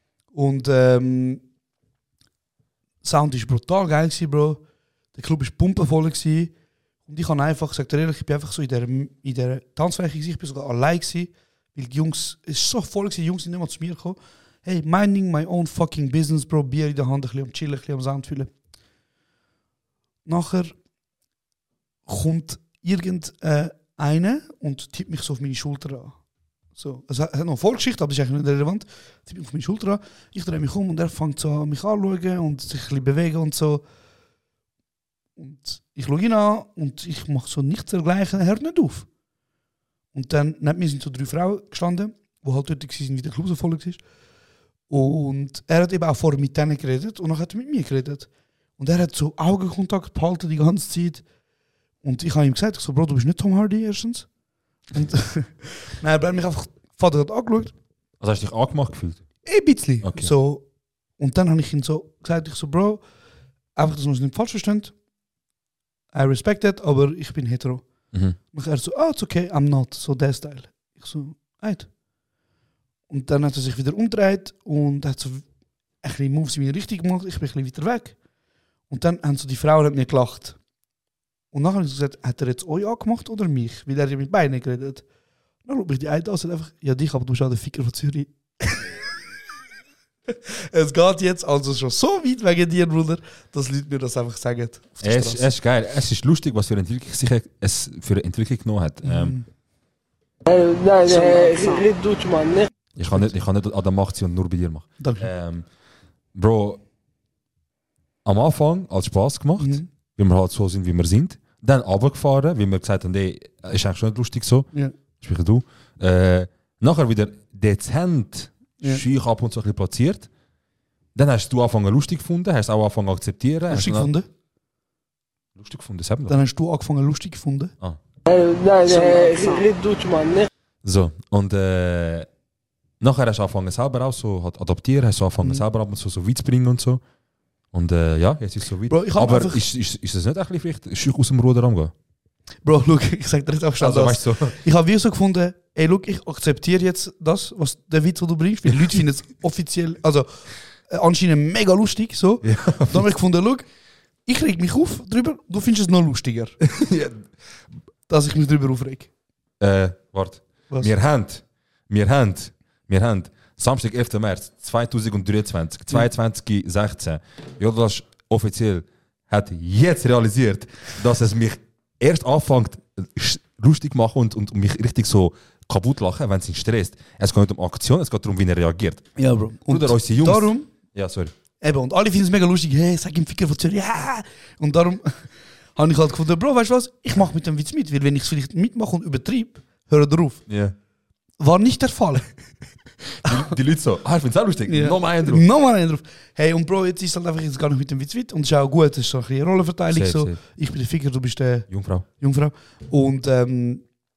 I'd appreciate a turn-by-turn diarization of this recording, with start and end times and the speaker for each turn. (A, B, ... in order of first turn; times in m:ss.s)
0:00.3-0:01.4 A
0:03.0-0:04.6 A
0:05.1-0:06.5 A
0:07.1-0:18.5 A
0:20.3-0:20.8 A
0:22.1-0:26.2 A
0:26.7-0:33.8 A
0:35.4-0:39.1 A
0:40.1-0:44.0 A
0:44.9-0:51.2 A
0:52.0-0:54.3 A
0:54.9-0:57.7 A
0:58.2-0:59.3 B
0:59.4-1:00.6 A
1:00.0-1:00.3 B
1:01.2-1:03.0 A
1:03.8-1:04.9 A
1:06.1-1:07.9 A
1:08.1-1:08.4 B
1:08.5-1:11.9 A
1:13.1-1:15.5 A
1:16.0-1:18.2 A
1:18.9-1:20.6 A
1:21.5-1:25.0 A
1:25.6-1:28.8 A
1:30.3-1:35.5 A
1:35.0-1:39.4 B
1:39.0-1:39.4 A
1:40.5-1:42.7 C
1:43.0-1:45.7 B
1:45.0-1:45.3 A
1:46.3-1:46.8 B
1:48.2-2:00.3 B
1:49.6-1:49.9 A
2:01.2-2:04.1 B
2:03.7-2:04.3 A
2:05.6-2:06.4 B
2:06.3-2:07.7 A
2:08.3-2:10.5 C
2:10.8-2:12.3 B
2:13.0-2:17.0 B
2:17.7-2:21.9 B
2:18.9-2:19.6 A
2:22.6-2:33.6 A
2:23.8-2:24.6 B
2:32.4-2:33.1 B
2:34.3-2:36.6 A
2:36.6-2:37.2 B
2:38.1-2:39.1 A
2:39.6-2:59.1 B
2:59.2-3:00.7 A
2:59.7-3:01.3 B
3:01.6-3:10.4 A
3:10.5-3:10.8 B
3:11.4-3:12.4 A
3:13.2-3:15.4 B
3:14.7-3:23.8 A
3:19.9-3:20.4 B
3:21.7-3:22.1 B